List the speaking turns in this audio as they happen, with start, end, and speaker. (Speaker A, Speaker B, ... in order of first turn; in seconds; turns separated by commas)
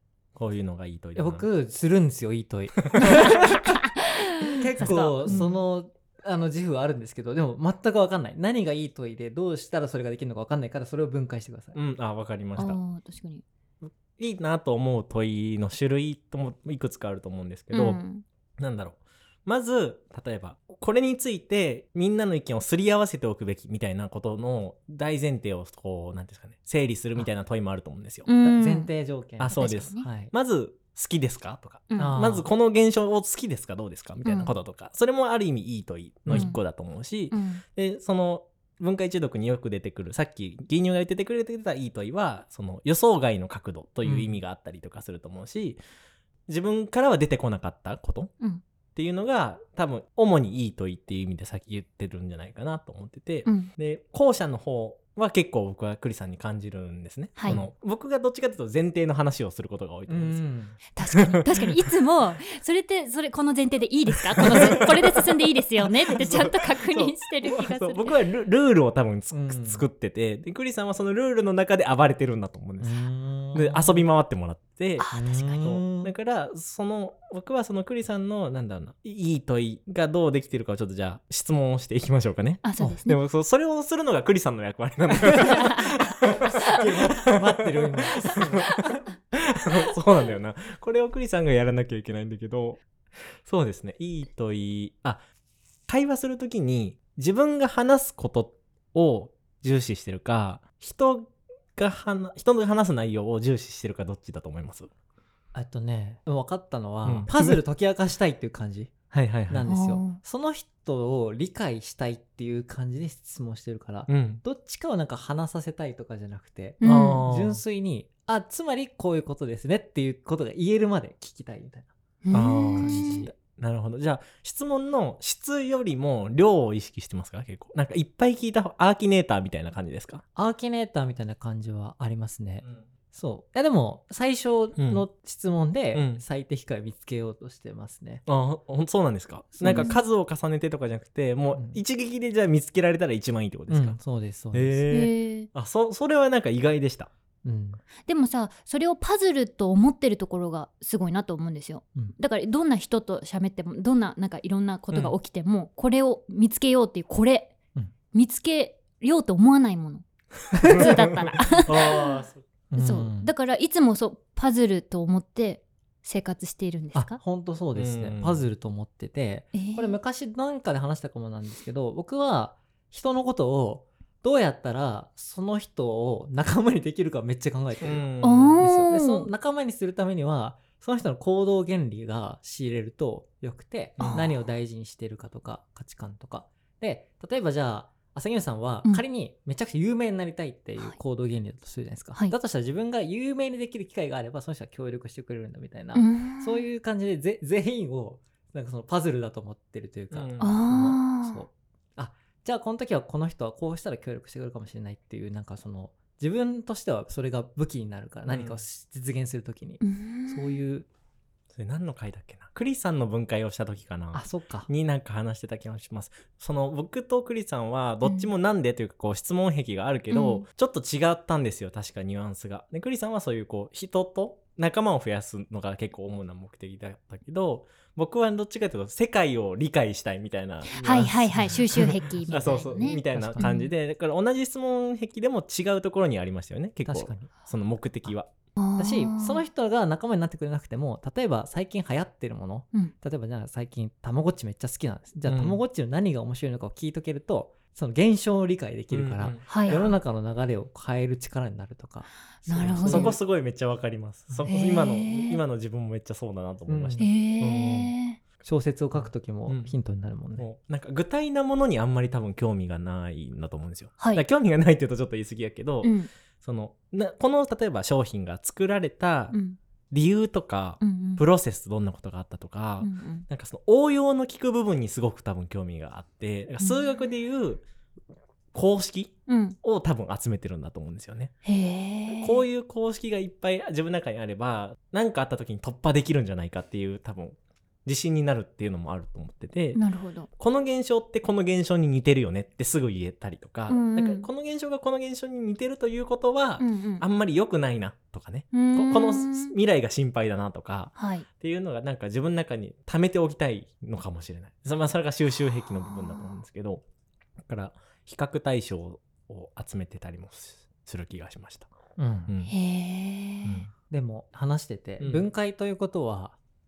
Speaker A: 0.3-1.5, Speaker B: 1.1-3.5, Speaker A: 2.9-3.5, Speaker C: 3.4-5.5, Speaker B: 4.5-11.8, Speaker A: 4.8-5.6, Speaker A: 11.7-12.8, Speaker C: 12.6-13.4, Speaker A: 13.8-18.0, Speaker C: 17.7-18.2, Speaker A: 18.6-28.3, Speaker C: 28.2-28.9, Speaker B: 28.4-30.3, Speaker A: 29.4-45.8, Speaker C: 29.5-30.1, Speaker C: 31.9-32.1, Speaker B: 32.0-32.4, Speaker C: 34.2-34.5, Speaker B: 36.2-36.5, Speaker C: 36.3-36.6, Speaker C: 37.3-37.6, Speaker B: 44.0-44.4, Speaker A: 46.5-48.3, Speaker A: 48.9-60.5, Speaker C: 53.4-53.7, Speaker C: 57.4-57.6, Speaker B: 60.1-60.8, Speaker C: 61.0-68.1, Speaker A: 61.1-61.6, Speaker A: 64.5-65.2, Speaker A: 66.1-73.0, Speaker B: 69.3-69.8, Speaker B: 72.8-74.0, Speaker A: 73.5-88.8, Speaker C: 75.0-75.4, Speaker B: 75.1-76.1, Speaker C: 82.6-83.2, Speaker C: 85.4-85.8, Speaker B: 86.7-88.4, Speaker A: 89.3-92.8, Speaker A: 93.4-95.2, Speaker A: 95.9-104.9, Speaker B: 105.5-123.3, Speaker A: 107.0-107.6, Speaker A: 109.1-109.7, Speaker C: 109.7-110.2, Speaker A: 114.1-114.4, Speaker C: 116.8-117.2, Speaker A: 116.8-117.6, Speaker C: 122.2-123.3, Speaker A: 122.3-130.2, Speaker B: 130.3-138.2, Speaker A: 134.8-135.0, Speaker A: 135.9-136.2, Speaker A: 138.2-144.0, Speaker B: 139.6-139.9, Speaker C: 139.7-140.0, Speaker B: 141.5-141.8, Speaker B: 143.7-144.8, Speaker A: 144.5-147.1, Speaker C: 144.9-145.5, Speaker B: 147.4-147.8, Speaker C: 148.1-157.6, Speaker A: 154.9-155.1, Speaker C: 158.1-162.2, Speaker A: 160.7-162.5, Speaker B: 162.7-163.3, Speaker C: 162.8-167.2, Speaker B: 166.9-210.8, Speaker A: 167.8-168.4, Speaker C: 169.5-169.9, Speaker A: 177.8-178.6, Speaker C: 178.2-179.3, Speaker A: 184.0-184.3, Speaker C: 184.0-184.3, Speaker C: 195.9-196.6, Speaker A: 200.1-200.6, Speaker C: 200.4-201.4, Speaker A: 208.3-208.6, Speaker C: 209.8-210.6, Speaker A: 211.5-238.3, Speaker B: 214.1-214.7, Speaker C: 218.0-218.3, Speaker C: 220.1-220.4, Speaker C: 230.7-233.7, Speaker B: 230.8-233.5, Speaker B: 236.8-237.4, Speaker C: 238.6-239.4, Speaker B: 238.8-253.2, Speaker A: 245.2-245.6, Speaker A: 248.9-249.9, Speaker C: 249.5-249.8, Speaker C: 252.4-253.2, Speaker A: 252.6-257.9, Speaker C: 254.4-255.4, Speaker B: 256.7-257.1, Speaker C: 257.0-258.2, Speaker B: 258.4-260.5, Speaker A: 258.9-259.7, Speaker A: 260.4-269.4, Speaker C: 264.0-264.2, Speaker C: 265.8-266.1, Speaker C: 269.3-269.6, Speaker A: 269.9-277.6, Speaker C: 270.8-271.2, Speaker C: 272.8-273.2, Speaker A: 278.5-281.3, Speaker C: 279.3-279.6, Speaker C: 281.4-282.4, Speaker A: 282.1-289.8, Speaker C: 289.8-290.3, Speaker A: 290.4-306.8, Speaker C: 293.7-294.3, Speaker C: 296.6-297.0, Speaker C: 298.5-299.5, Speaker C: 300.9-301.2, Speaker A: 307.4-311.7, Speaker B: 312.0-312.3, Speaker A: 312.3-312.5, Speaker C: 312.5-313.6, Speaker A: 313.4-313.7, Speaker B: 313.9-316.4, Speaker A: 315.0-315.3